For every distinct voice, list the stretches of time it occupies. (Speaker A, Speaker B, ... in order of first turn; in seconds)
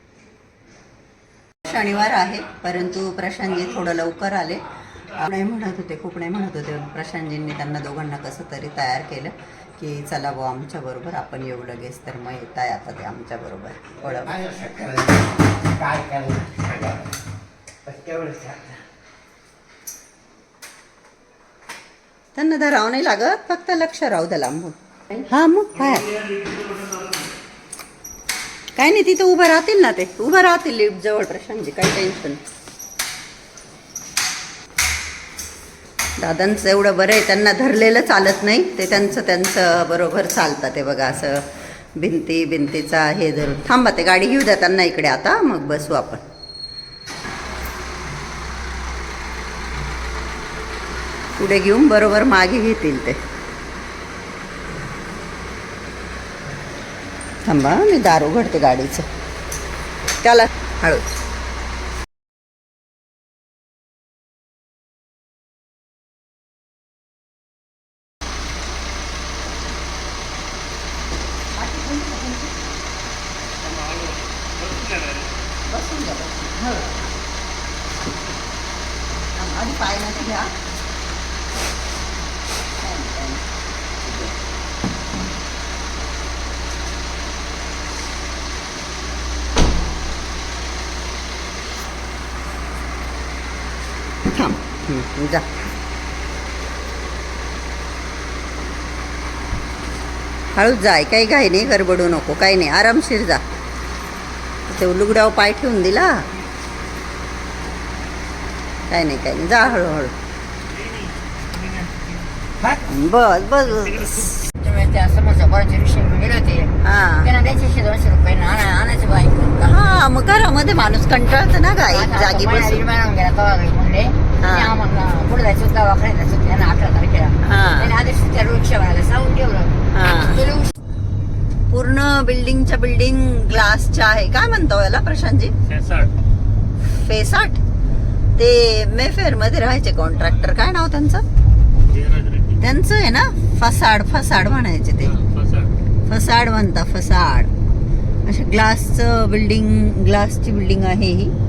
Speaker A: 1.6-14.3, 22.4-26.1, 28.8-32.4, 36.2-46.2, 51.4-53.2, 57.5-59.1, 60.2-61.1, 71.5-72.6, 75.7-77.0, 79.4-80.5, 82.8-83.4, 84.1-84.3, 94.3-95.5, 100.5-103.4, 104.7-106.2, 108.9-110.1, 112.9-114.1, 116.8-117.3, 119.6-122.8, 124.4-124.8, 127.4-128.0, 129.9-130.4, 131.7-135.5, 136.8-137.6, 138.4-141.2, 142.6-145.1, 146.1-147.5, 148.3-151.3
Speaker B: 14.0-17.0, 17.9-18.8
Speaker C: 25.7-27.3, 73.6-75.5, 110.7-112.2, 113.7-114.3, 135.7-136.1, 141.9-142.6, 145.0-145.8
Speaker D: 114.6-119.9, 121.9-130.7